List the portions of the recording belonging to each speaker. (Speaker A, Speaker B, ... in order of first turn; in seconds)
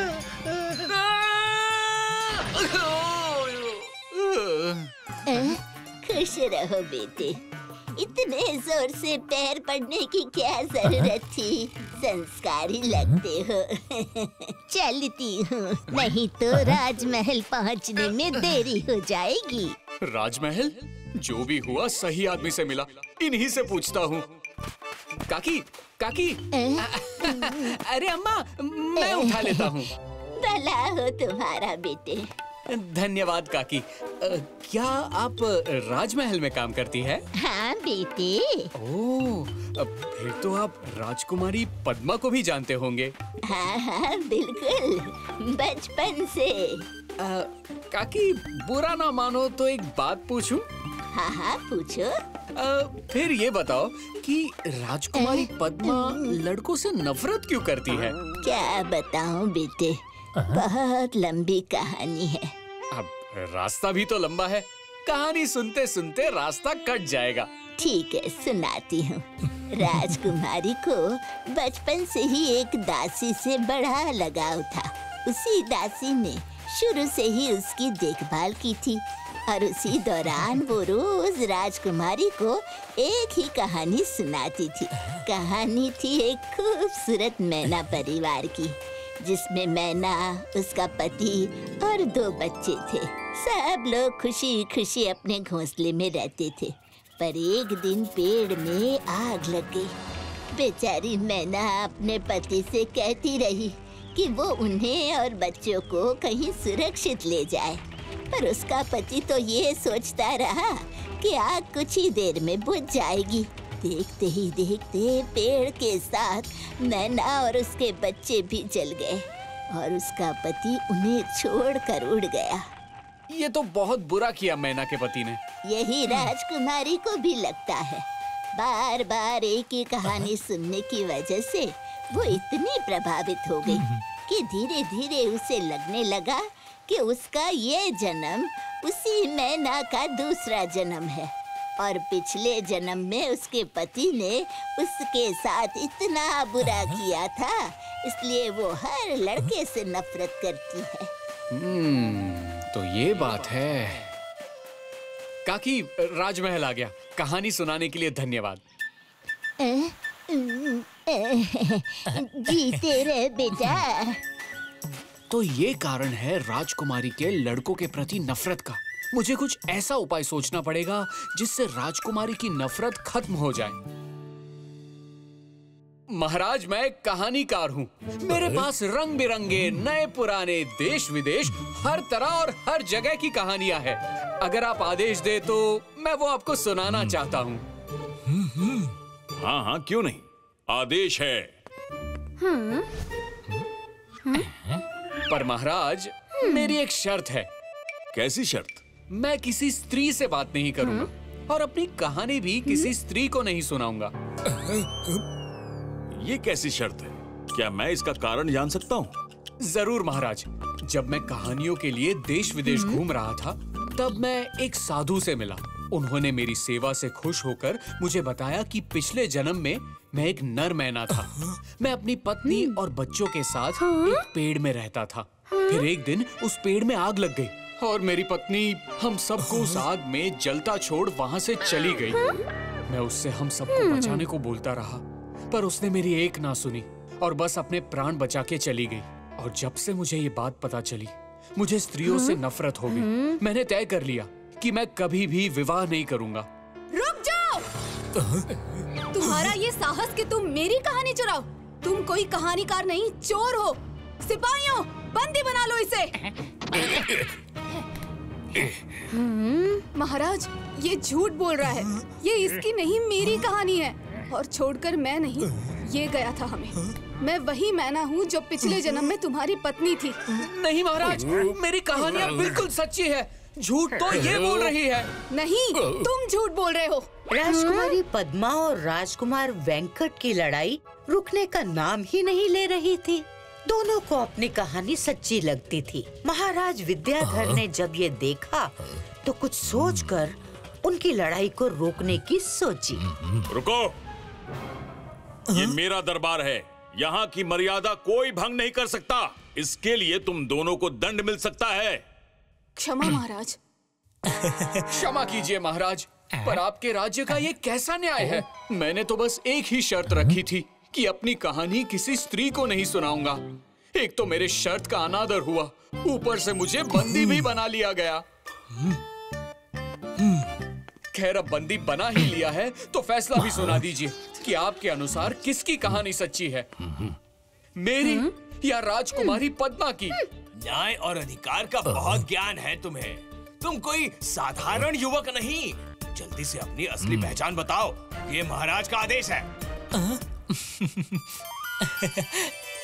Speaker A: 2.6-3.5, 20.0-24.3, 25.3-29.9, 32.7-37.2, 38.8-43.1, 47.2-50.7, 52.5-58.2, 62.9-67.5, 123.3-125.4, 151.5-154.0, 155.4-158.6, 165.3-173.8, 176.1-187.6, 195.3-197.5, 199.1-204.1, 209.6-232.2, 232.9-246.5, 270.3-275.1, 304.7-313.4, 313.9-318.2, 321.1-326.7, 327.8-330.2
Speaker B: 5.3-7.4, 8.0-19.8, 26.5-27.5, 29.0-29.7, 30.4-32.3, 37.4-38.7, 43.5-46.9, 51.1-52.2, 55.1-56.3, 58.4-62.5, 67.8-99.9, 100.5-122.6, 125.6-151.1, 159.6-164.2
Speaker C: 189.4-191.5, 198.1-198.8, 206.2-209.1, 293.5-293.9, 295.5-302.0
Speaker D: 246.9-247.6, 249.1-256.2, 259.9-270.2, 275.3-277.9, 302.8-303.6
Speaker E: 277.3-293.0
Speaker F: 330.6-339.4